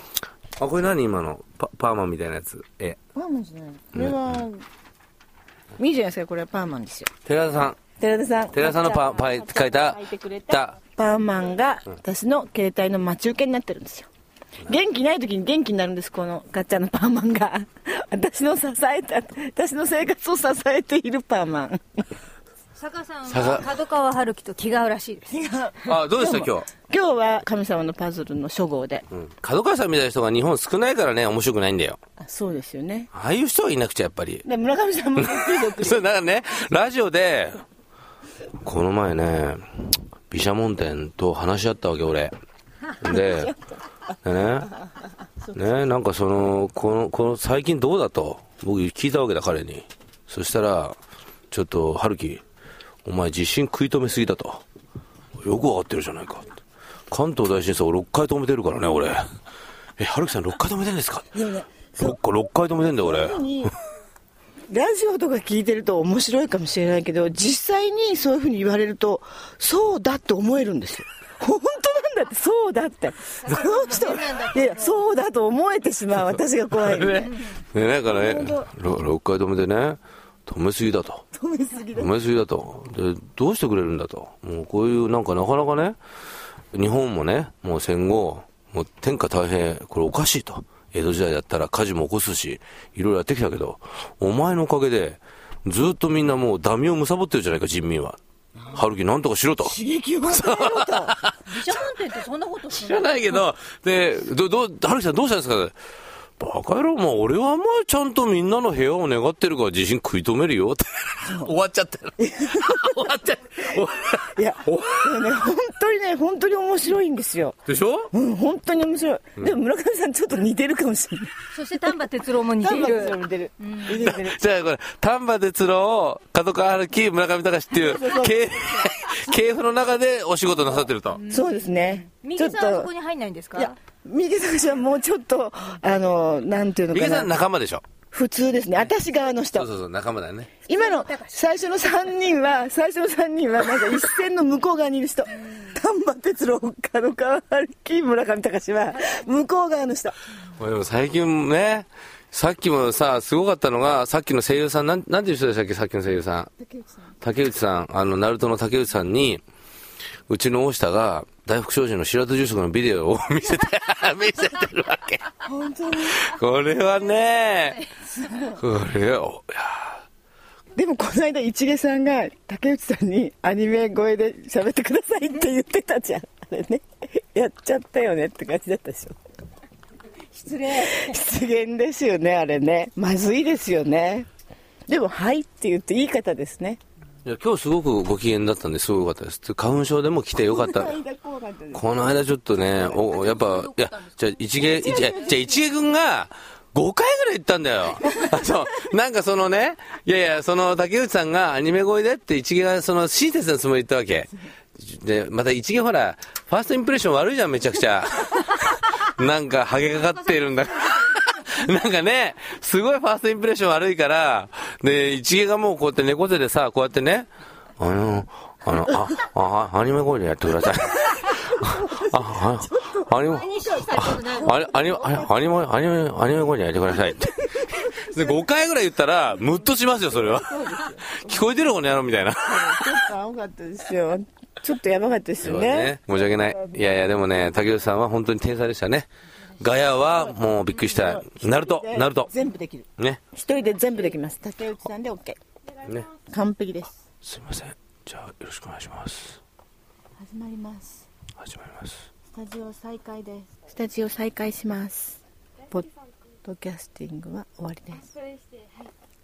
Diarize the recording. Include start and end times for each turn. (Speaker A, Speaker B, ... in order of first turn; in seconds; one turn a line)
Speaker A: 0.6-3.0
Speaker B: 3.1-4.7
Speaker A: 3.9-4.4
Speaker B: 5.8-7.1
Speaker A: 7.2-7.8
Speaker B: 8.0-14.1
Speaker A: 8.5-10.8
Speaker B: 14.6-22.1
Speaker C: 22.8-25.3
Speaker A: 23.3-23.7
Speaker B: 25.3-29.1
Speaker A: 25.8-26.7
Speaker A: 29.1-32.0
Speaker B: 32.2-33.1
Speaker A: 33.1-34.5
Speaker B: 34.4-36.1
Speaker A: 35.2-37.6
Speaker A: 38.6-42.3
Speaker A: 43.0-43.5
Speaker B: 43.1-43.6
Speaker A: 44.2-44.7
Speaker A: 45.5-51.0
Speaker A: 51.5-52.4
Speaker A: 53.0-54.6
Speaker A: 55.4-56.5
Speaker A: 57.1-59.3
Speaker A: 60.0-61.4
Speaker B: 61.3-62.2
Speaker A: 62.0-63.5
Speaker B: 63.0-63.7
Speaker B: 64.7-77.4
Speaker C: 73.4-75.1
Speaker A: 76.8-81.2
Speaker B: 78.1-78.7
Speaker B: 81.3-82.1
Speaker A: 81.9-86.0
Speaker A: 86.7-102.0
Speaker B: 99.6-101.2
Speaker C: 101.5-103.4
Speaker A: 102.7-105.8
Speaker A: 106.4-115.1
Speaker B: 111.2-111.5
Speaker B: 112.2-113.0
Speaker B: 114.3-117.6
Speaker A: 117.7-118.1
Speaker B: 118.1-121.8
Speaker C: 121.5-123.2
Speaker B: 122.4-124.4
Speaker A: 123.8-131.3
Speaker B: 127.8-128.8
Speaker B: 131.3-132.9
Speaker C: 132.1-133.8
Speaker B: 133.6-137.3
Speaker A: 136.9-137.8
Speaker B: 138.1-139.7
Speaker A: 139.5-140.6
Speaker C: 140.7-141.4
Speaker B: 140.7-150.2
Speaker A: 150.5-156.5
Speaker A: 157.2-159.4
Speaker A: 160.3-165.4
Speaker B: 165.4-166.2
Speaker A: 166.0-167.9
Speaker B: 168.2-168.6
Speaker A: 168.4-170.0
Speaker B: 170.8-179.2
Speaker C: 180.3-181.0
Speaker B: 180.6-184.3
Speaker B: 184.9-186.8
Speaker A: 187.2-191.0
Speaker B: 190.4-191.8
Speaker A: 191.7-233.1
Speaker B: 194.6-195.4
Speaker B: 221.6-223.7
Speaker C: 223.4-224.5
Speaker B: 230.2-231.5
Speaker B: 232.4-236.0
Speaker A: 235.4-242.3
Speaker B: 241.0-245.4
Speaker A: 245.8-246.1
Speaker B: 246.1-246.9
Speaker A: 247.2-249.4
Speaker B: 250.2-251.1
Speaker A: 251.4-252.1
Speaker B: 252.3-255.9
Speaker B: 256.4-258.3